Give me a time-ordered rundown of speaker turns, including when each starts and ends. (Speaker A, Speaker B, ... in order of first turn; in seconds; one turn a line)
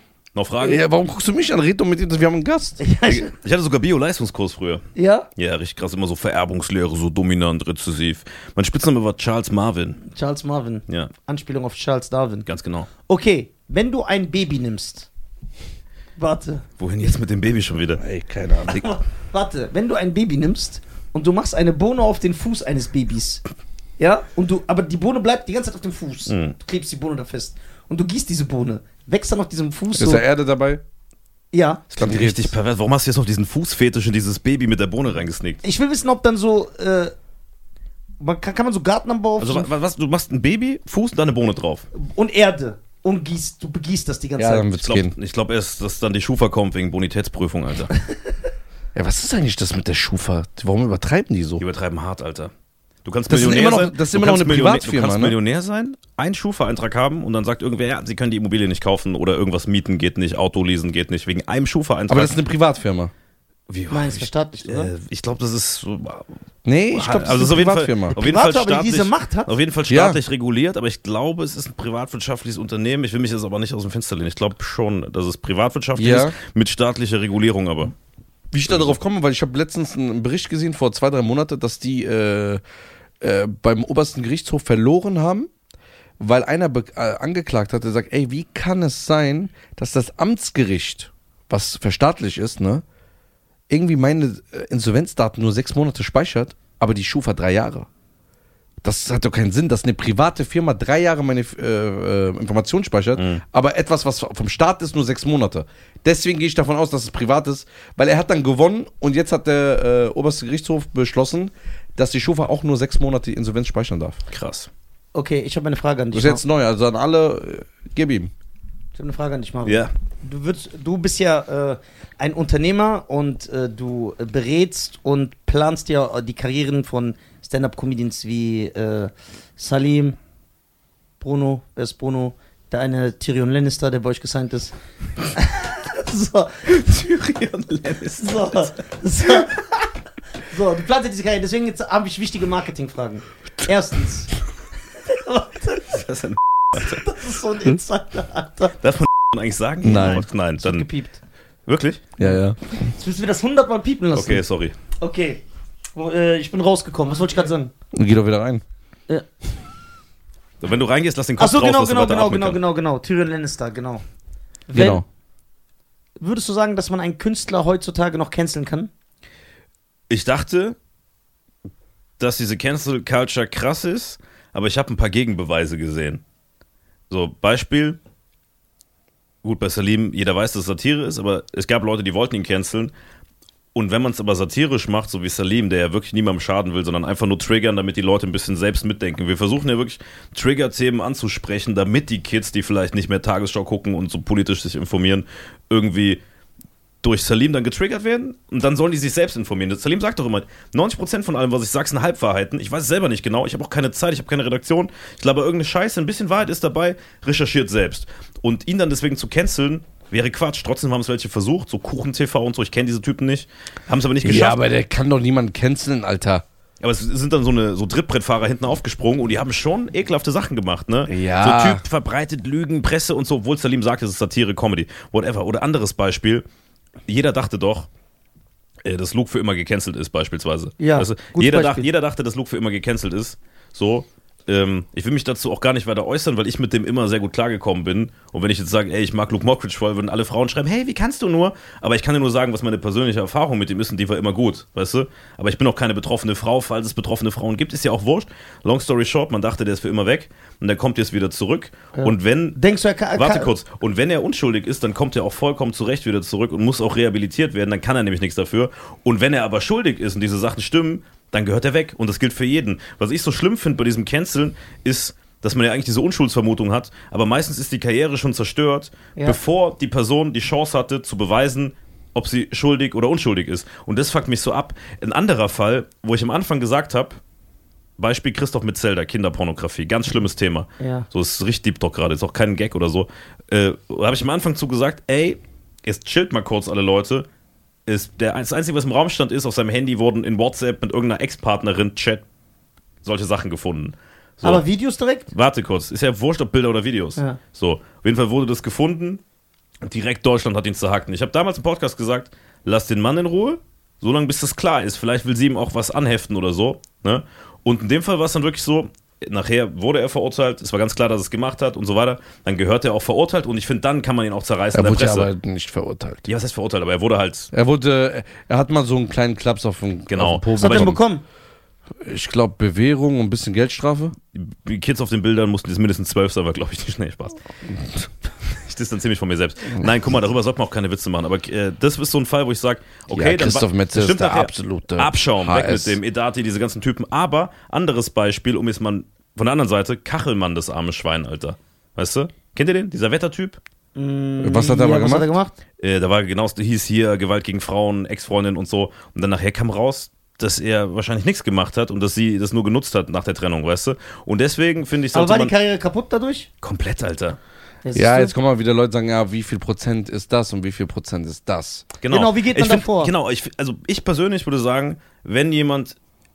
Speaker A: 0.3-0.8
Speaker B: 0.6-2.8
Speaker C: 2.8-3.3
Speaker A: 3.1-4.8
Speaker C: 5.0-5.3
Speaker A: 5.4-10.0
Speaker C: 10.1-12.5
Speaker A: 12.5-12.9
Speaker C: 13.1-15.1
Speaker C: 16.2-16.7
Speaker A: 16.8-18.0
Speaker B: 18.0-18.9
Speaker C: 18.7-23.4
Speaker C: 24.0-30.2
Speaker A: 26.3-26.6
Speaker B: 30.0-30.8
Speaker C: 31.5-31.9
Speaker A: 31.9-35.6
Speaker B: 32.0-32.5
Speaker C: 35.6-37.1
Speaker C: 38.2-39.7
Speaker A: 39.4-41.9
Speaker C: 41.9-44.7
Speaker B: 44.4-45.1
Speaker A: 44.7-47.9
Speaker B: 49.0-51.6
Speaker A: 51.6-52.5
Speaker A: 53.0-62.4
Speaker B: 53.3-55.4
Speaker B: 62.1-63.1
Speaker A: 63.7-66.4
Speaker C: 63.9-64.9
Speaker B: 66.7-68.2
Speaker A: 66.9-77.9
Speaker C: 68.1-69.5
Speaker B: 69.9-70.2
Speaker B: 76.0-76.4
Speaker B: 78.5-82.6
Speaker A: 78.7-79.0
Speaker B: 83.2-85.5
Speaker B: 86.2-92.8
Speaker B: 93.7-97.9
Speaker B: 98.8-114.2
Speaker A: 103.2-103.4
Speaker A: 114.3-114.7
Speaker C: 115.1-116.4
Speaker B: 116.1-118.3
Speaker C: 119.0-130.2
Speaker A: 119.7-119.9
Speaker C: 131.2-134.7
Speaker C: 135.3-136.7
Speaker A: 136.7-138.7
Speaker C: 138.2-139.9
Speaker A: 139.2-139.5
Speaker C: 140.5-144.3
Speaker C: 145.1-146.1
Speaker A: 146.0-147.1
Speaker C: 146.8-148.8
Speaker A: 148.8-150.9
Speaker B: 149.8-150.2
Speaker C: 149.8-151.2
Speaker A: 151.7-152.0
Speaker B: 152.2-152.9
Speaker C: 152.9-154.4
Speaker A: 154.1-154.8
Speaker C: 155.0-155.4
Speaker C: 155.9-157.7
Speaker B: 157.9-158.6
Speaker A: 160.6-162.6
Speaker C: 161.4-164.0
Speaker C: 164.7-165.0
Speaker B: 164.7-165.0
Speaker C: 166.2-168.9
Speaker A: 170.1-170.8
Speaker A: 172.2-176.2
Speaker A: 177.1-178.0
Speaker A: 179.4-182.9
Speaker A: 183.7-196.2
Speaker A: 197.0-214.6
Speaker B: 214.2-216.4
Speaker A: 216.8-226.4
Speaker B: 221.1-221.8
Speaker A: 227.1-227.9
Speaker A: 228.8-252.6
Speaker C: 230.8-231.9
Speaker C: 251.9-253.5
Speaker A: 253.2-277.2
Speaker A: 278.0-287.3
Speaker C: 280.8-281.1
Speaker A: 287.9-292.2
Speaker A: 293.0-294.6
Speaker C: 294.4-295.3
Speaker A: 295.3-299.2
Speaker A: 299.8-315.3
Speaker B: 314.7-316.3
Speaker A: 316.3-317.5
Speaker B: 317.5-321.0
Speaker A: 320.1-320.9
Speaker C: 320.6-321.2
Speaker B: 322.0-324.2
Speaker A: 324.3-327.4
Speaker A: 328.4-343.6
Speaker B: 333.1-336.0
Speaker C: 343.9-345.5
Speaker B: 344.4-345.3
Speaker A: 345.8-355.5
Speaker C: 355.1-356.5
Speaker A: 356.6-357.4
Speaker C: 357.8-358.3
Speaker B: 357.9-361.9
Speaker A: 362.0-366.0
Speaker C: 362.1-363.1